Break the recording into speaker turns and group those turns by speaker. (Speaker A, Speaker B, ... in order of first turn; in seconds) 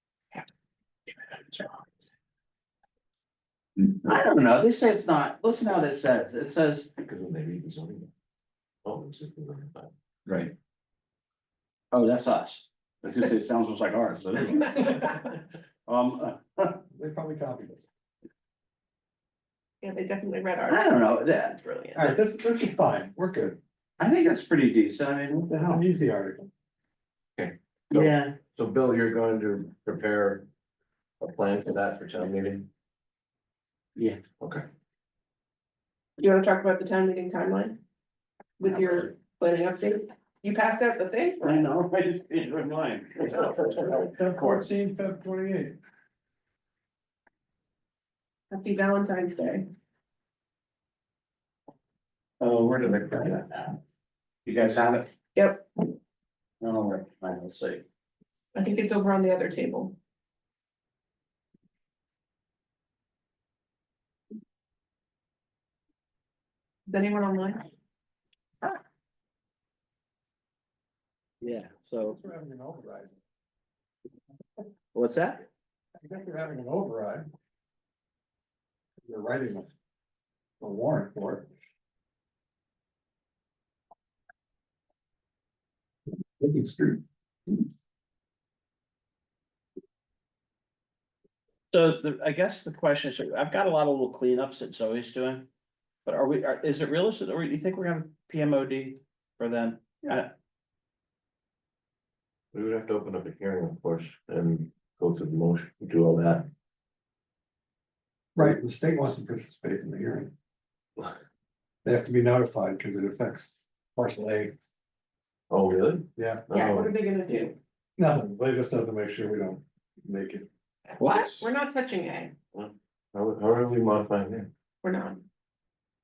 Speaker A: 3.8-6.9, 10.2-10.5, 11.9-15.2, 15.8-16.8, 20.7-21.5, 24.0-25.8, 27.9-28.3, 41.4-44.7, 52.4-53.8, 54.4-55.1, 56.6-57.8, 71.4-72.2, 74.9-75.4, 91.7-95.5, 96.0-100.3, 121.0-121.4
Speaker B: 7.0-8.1, 8.8-9.9, 27.4-30.4, 31.2-32.7, 102.5-106.5, 115.5-116.9, 122.5-124.5
Speaker C: 16.9-17.9, 21.9-23.6, 25.5-26.5, 43.6-45.8, 72.1-73.2, 76.0-77.2, 79.0-79.7, 80.6-81.5, 86.4-87.0, 108.3-110.3, 111.8-114.5, 116.2-116.5, 118.0-120.5
Speaker D: 19.8-22.2, 36.2-37.8, 38.6-41.6, 48.5-49.6, 55.3-55.7, 58.5-59.9, 66.9-67.7, 116.5-117.6, 121.1-122.3, 124.8-125.2